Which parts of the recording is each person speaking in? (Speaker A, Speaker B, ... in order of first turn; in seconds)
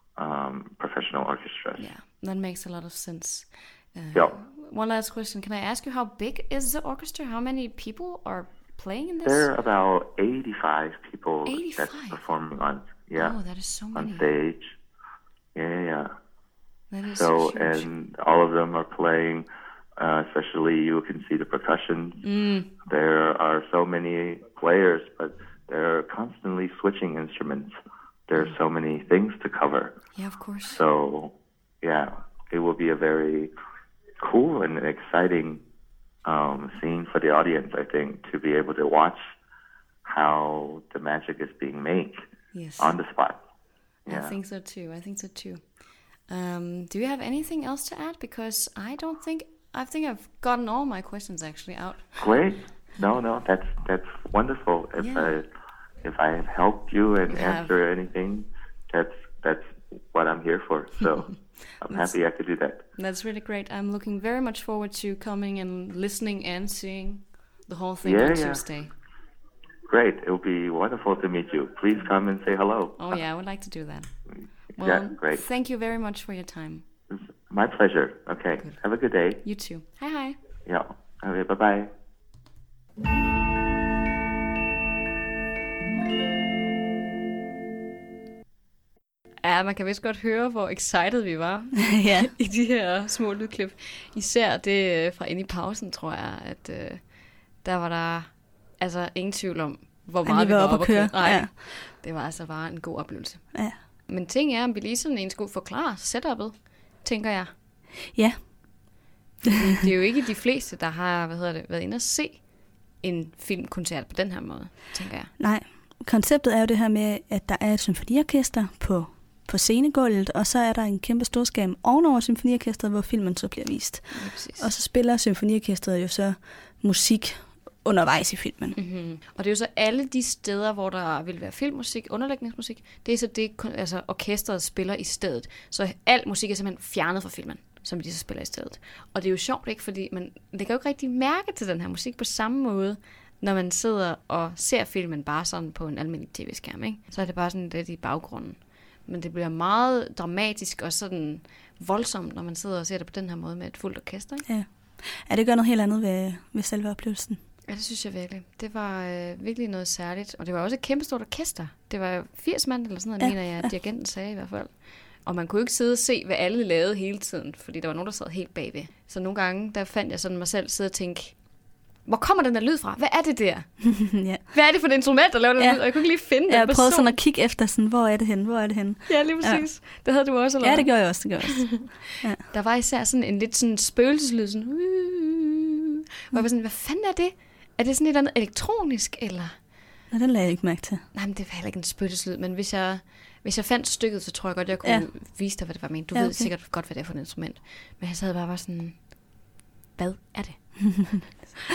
Speaker A: 0.2-1.8, 9.2-13.4, 13.9-14.8, 15.6-16.1, 17.1-19.5, 20.0-22.2, 22.9-27.7, 28.3-30.0, 30.7-33.5, 34.2-35.6, 36.2-39.3, 40.0-42.2, 42.8-43.4, 44.1-44.4, 52.2-55.5, 56.0-62.8, 68.0-68.6, 69.9-73.2, 74.8-75.4, 77.5-79.4, 80.7-81.9
Speaker B: 1.8-9.5, 11.5-12.2, 13.2-14.3, 16.9-17.9, 22.2-22.7, 30.1-30.8, 42.5-43.0, 44.1-45.6, 46.3-52.2, 55.0-55.4, 57.3-57.7, 63.0-68.9, 73.0-74.1, 74.8-76.8, 79.4-80.4, 89.4-107.5, 109.4-115.3, 124.1-124.7, 128.8-154.5, 157.7-171.4, 172.1-177.2, 179.1-189.6, 191.1-199.2, 200.0-201.1
Speaker C: 91.9-92.3, 100.2-101.5, 108.1-108.8, 115.4-128.8, 154.5-157.4, 173.9-174.4, 175.6-179.7, 180.6-182.4, 190.1-191.0, 196.1-196.5, 200.8-201.2